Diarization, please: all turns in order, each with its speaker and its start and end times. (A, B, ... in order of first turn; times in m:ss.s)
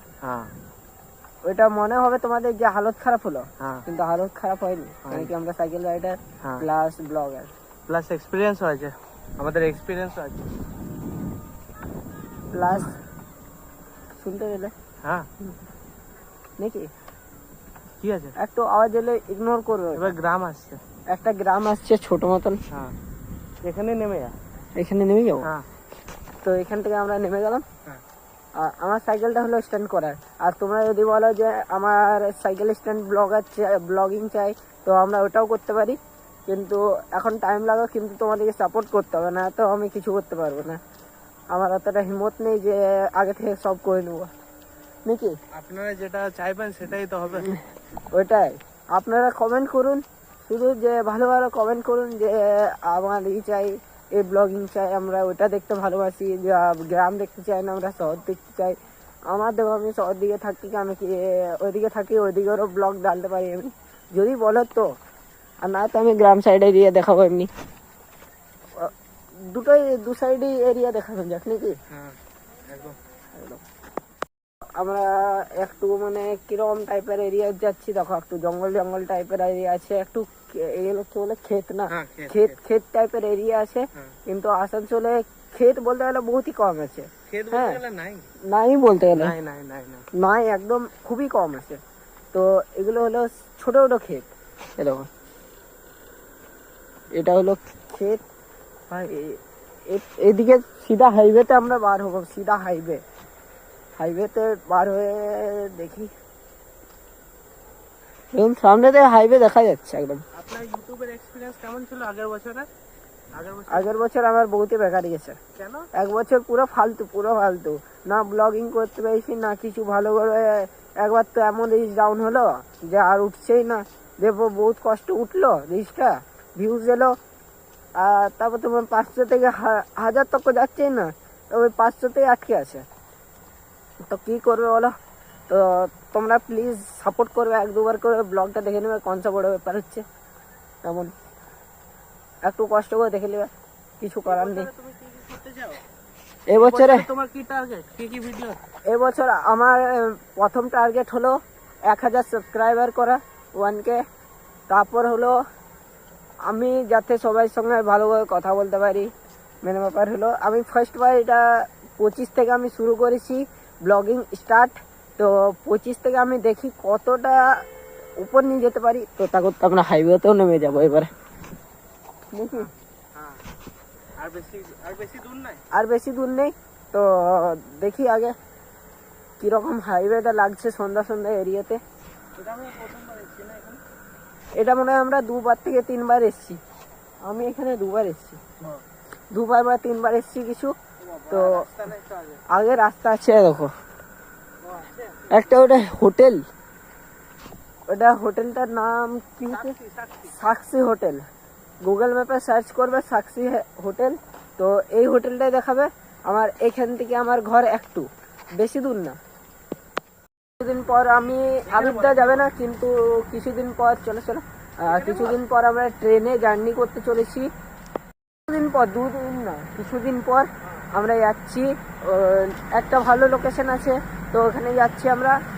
0:00.2-0:00.5 A
0:01.5-0:07.5 B
0:05.0-0:05.3 A
0:07.9-0:10.5 A
0:12.5-0:13.0 B
0:14.2-0:14.7 B
0:16.6-0:16.9 B
0:18.0-0:18.4 A
0:18.4-0:20.1 B
0:20.0-0:20.8 A
0:21.1-0:22.6 B
0:23.6-0:24.4 A
0:24.8-0:25.5 B
0:26.4-0:27.6 B
0:28.6-0:36.0 B
0:36.5-0:40.8 B
0:41.5-0:44.3 B
0:45.1-0:45.4 B
0:45.5-0:47.5 A
0:48.1-0:58.8 B
0:59.3-1:04.9 B
1:05.6-1:07.5 B
1:09.5-1:11.8 B
1:11.9-1:13.0 A
1:13.4-1:13.6 B
1:14.8-1:27.8 B
1:21.9-1:22.6 A
1:27.3-1:28.3 A
1:28.5-1:29.4 B
1:29.1-1:30.0 A
1:30.2-1:31.8 B
1:32.3-1:35.1 B
1:37.2-1:38.2 B
1:38.9-1:39.4 B
1:39.9-1:43.0 B
1:44.0-1:46.1 B
1:48.3-1:50.2 B
1:50.3-1:52.7 A
1:53.3-1:54.0 A
1:53.7-1:55.4 B
1:55.6-1:55.9 A
1:55.9-2:07.2 B
2:08.0-2:12.9 B
2:14.1-2:14.9 B
2:15.5-2:20.0 B
2:20.8-2:21.1 B
2:22.4-2:23.5 B
2:24.0-2:24.7 B
2:24.2-2:25.8 A
2:26.5-2:27.1 B
2:26.5-2:28.6 A
2:28.9-2:31.4 B
2:31.9-2:34.0 B
2:34.7-2:35.4 B
2:36.5-2:39.1 B
2:39.6-2:47.5 B
2:48.2-2:51.1 B
2:52.3-2:52.7 B
2:52.5-2:53.4 A
2:54.2-2:55.6 A
2:55.7-2:58.4 B
2:59.4-3:01.8 B
3:02.4-3:03.8 A
3:04.6-3:06.6 B
3:07.3-3:08.4 B
3:09.3-3:10.8 B
3:11.0-3:12.4 A
3:11.3-3:11.7 B
3:12.5-3:13.7 B
3:14.6-3:15.4 A
3:15.3-3:16.4 B
3:17.9-3:19.7 B
3:19.5-3:20.3 A
3:20.3-3:21.2 B
3:21.8-3:28.1 B
3:28.6-3:29.2 B
3:30.6-3:37.5 B
3:31.7-3:32.5 A
3:34.8-3:35.4 A
3:38.5-3:45.4 B